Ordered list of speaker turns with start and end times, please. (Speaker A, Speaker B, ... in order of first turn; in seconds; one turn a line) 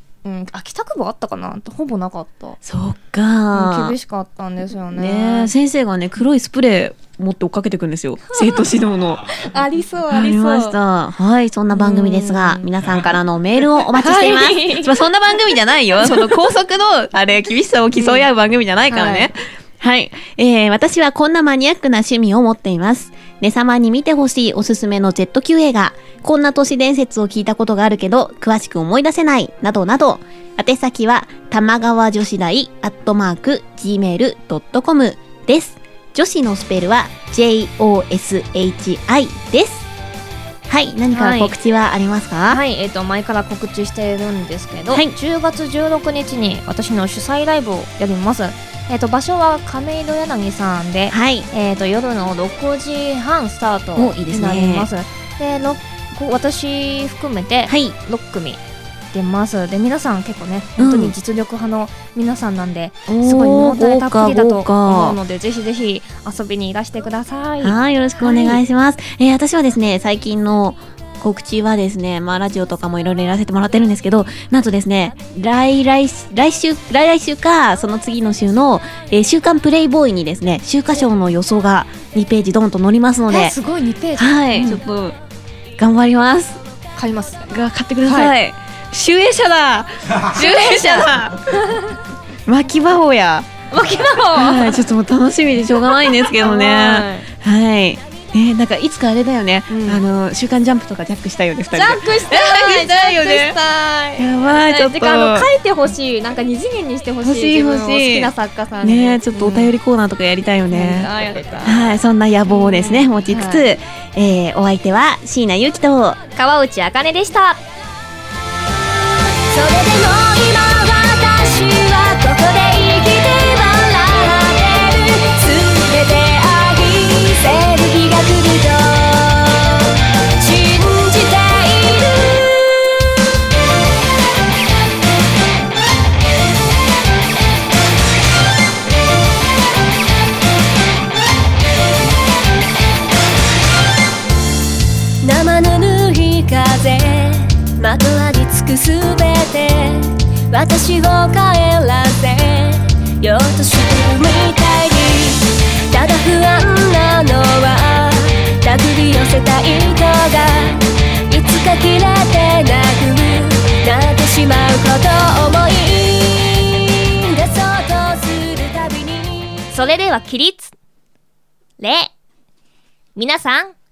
Speaker A: 0.2-2.6
Speaker B: 2.6-4.0
Speaker A: 3.5-5.5
Speaker B: 4.9-9.3
Speaker A: 8.3-8.7
Speaker A: 9.3-10.8
Speaker B: 10.1-39.9
Speaker A: 11.7-12.7
Speaker A: 13.9-15.0
Speaker A: 16.0-16.4
Speaker A: 17.9-18.3
Speaker A: 18.9-19.3
Speaker B: 40.7-42.6
Speaker A: 41.1-41.6
Speaker A: 42.5-58.6
Speaker B: 51.1-51.5
Speaker B: 54.0-54.9
Speaker B: 57.7-58.0
Speaker A: 59.1-68.6
Speaker B: 60.8-61.1
Speaker B: 63.1-65.2
Speaker B: 67.6-83.5
Speaker A: 83.3-84.8
Speaker B: 84.2-85.2
Speaker B: 85.8-86.6
Speaker A: 87.0-87.5
Speaker B: 87.5-91.6
Speaker A: 88.1-88.3
Speaker A: 90.3-92.0
Speaker B: 92.5-93.5
Speaker A: 93.7-94.8
Speaker B: 94.3-103.6
Speaker A: 96.3-97.3
Speaker A: 99.7-100.0
Speaker A: 101.7-109.7
Speaker B: 104.2-105.5
Speaker B: 107.2-111.1
Speaker A: 110.7-113.7
Speaker B: 111.6-116.2
Speaker A: 116.3-117.6
Speaker C: 119.3-133.1
Speaker C: 145.2-169.7
Speaker A: 169.7-170.7
Speaker A: 171.8-172.1
Speaker A: 173.2-173.8